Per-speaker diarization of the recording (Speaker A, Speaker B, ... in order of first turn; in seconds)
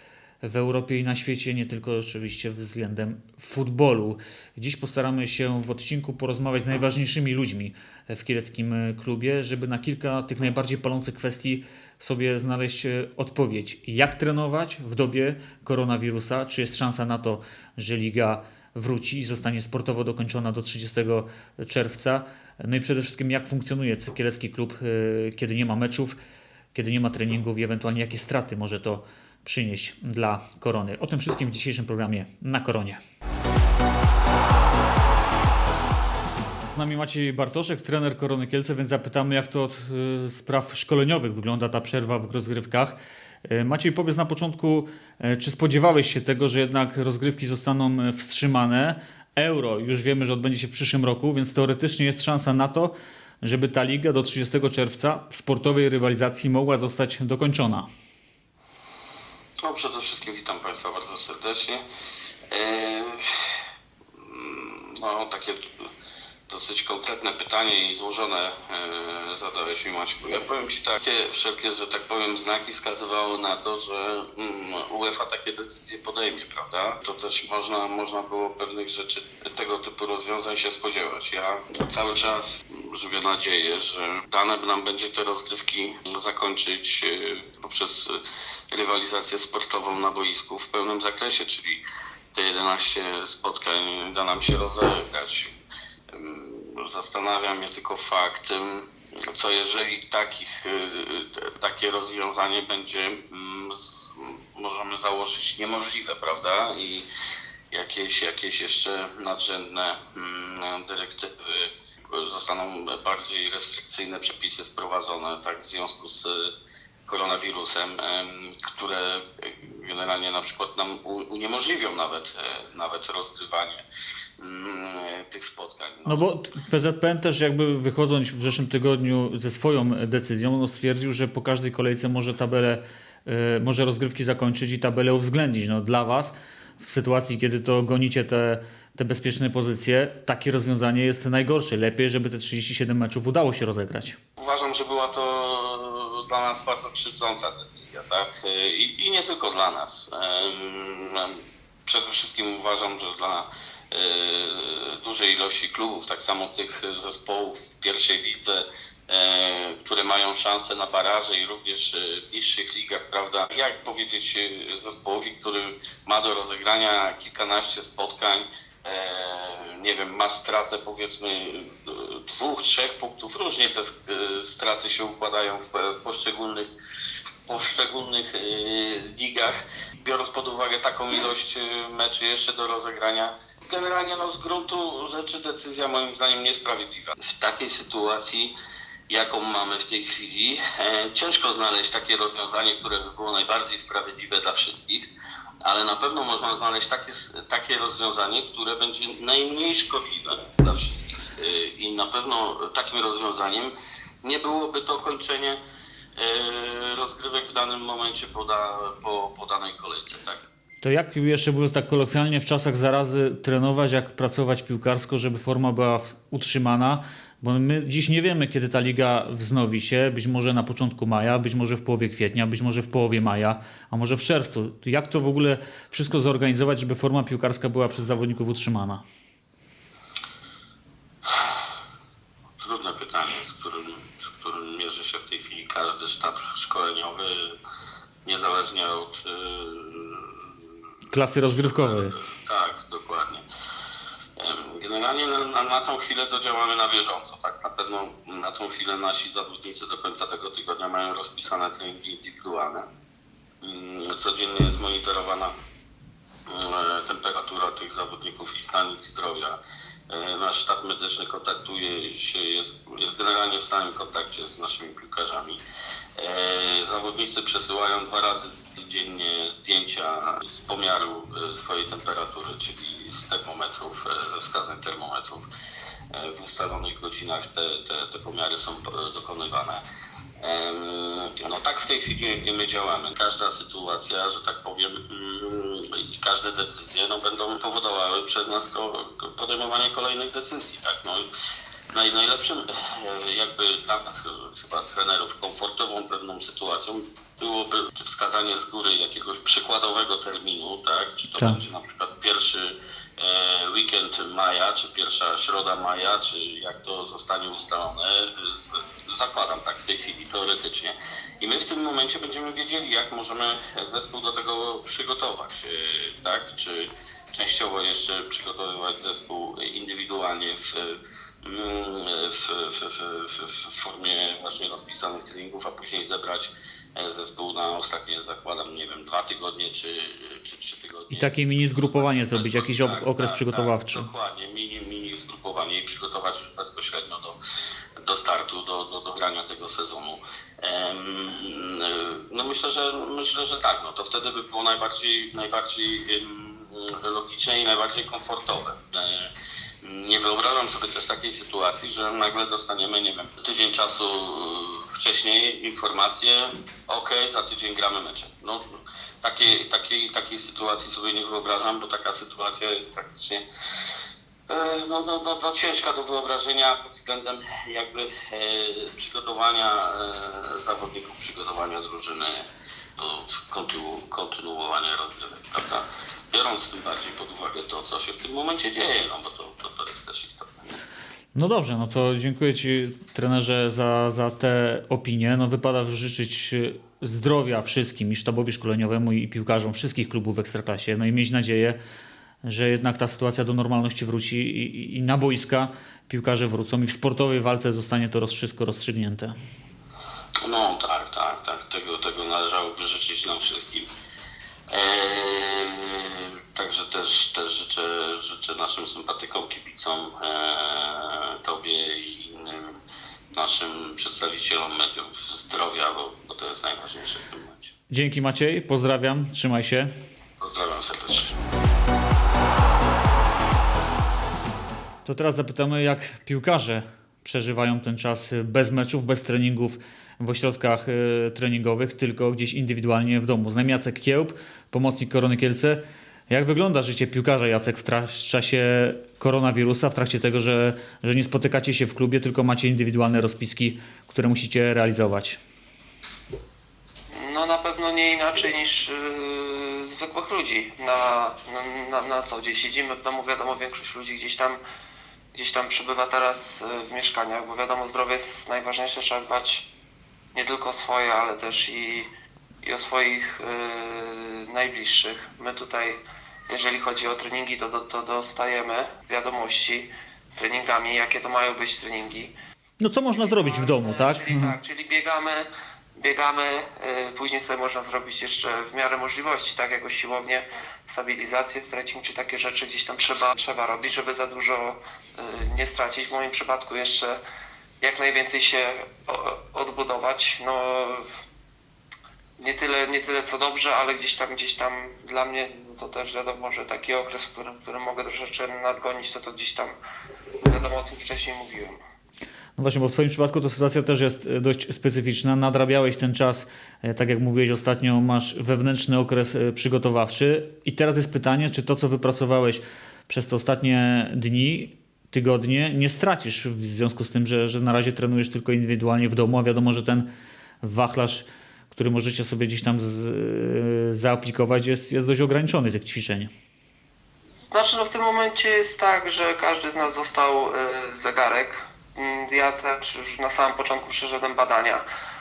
Speaker A: 0.4-26.2, 26.7-33.0, 36.7-57.9, 126.0-144.2, 210.8-229.0, 241.1-242.1, 331.1-334.1, 381.3-391.8, 392.4-399.3, 417.9-419.9, 425.0-445.4, 472.8-474.5, 502.6-520.1, 520.6-526.3
Speaker B: 59.6-61.8, 62.5-63.5, 64.2-65.9, 66.5-88.2, 88.7-91.8, 92.3-95.5, 96.1-107.1, 107.7-116.5, 117.1-123.8, 124.4-126.2, 144.4-176.7, 177.4-188.5, 189.1-195.1, 195.6-205.6, 206.2-210.5, 232.6-237.6, 238.2-240.5, 241.5-243.4, 244.4-252.9, 253.6-255.5, 256.5-259.6, 260.1-265.6, 266.2-275.5, 276.1-279.8, 280.4-291.3, 291.9-331.3, 331.8-337.4, 338.0-349.3, 349.8-363.4, 364.5-380.7, 400.4-403.9, 404.7-412.8, 413.3-417.7, 420.4-421.3
Speaker C: 447.1-454.6, 455.3-459.7, 460.3-462.1, 462.6-472.3, 473.1-487.2, 487.8-491.1, 492.4-499.7, 500.4-501.8, 527.4-534.8